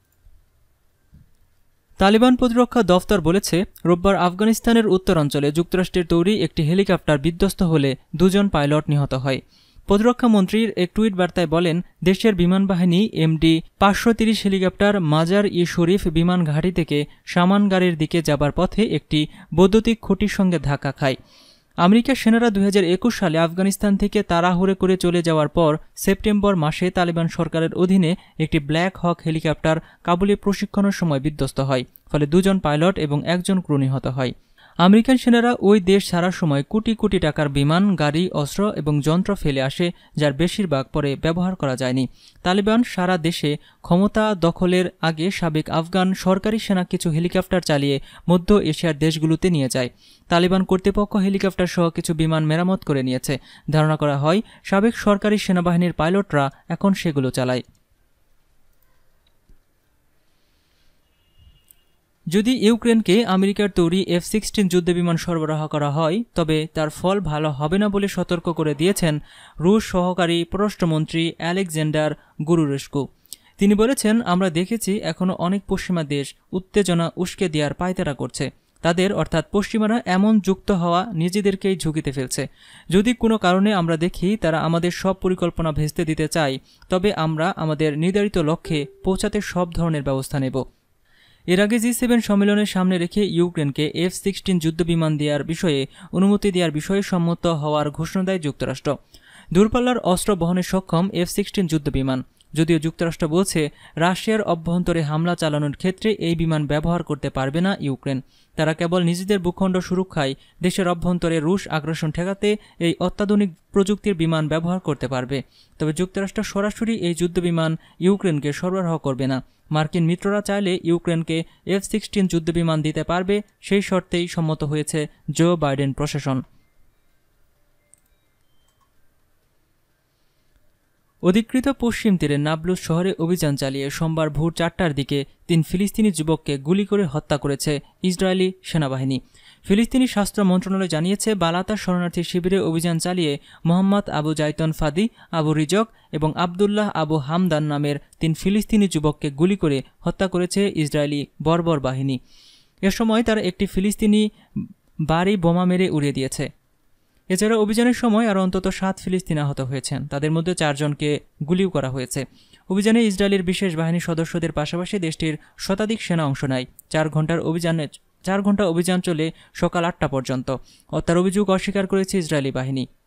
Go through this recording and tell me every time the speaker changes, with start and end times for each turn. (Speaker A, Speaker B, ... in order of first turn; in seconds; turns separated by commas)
Speaker A: 2.0-21.2, Speaker A: 21.8-57.6, Speaker A: 62.3-73.1, Speaker A: 73.6-90.6, Speaker A: 91.5-98.9, Speaker A: 99.5-126.4, Speaker A: 131.3-152.2, Speaker A: 152.9-156.5, Speaker A: 157.3-172.9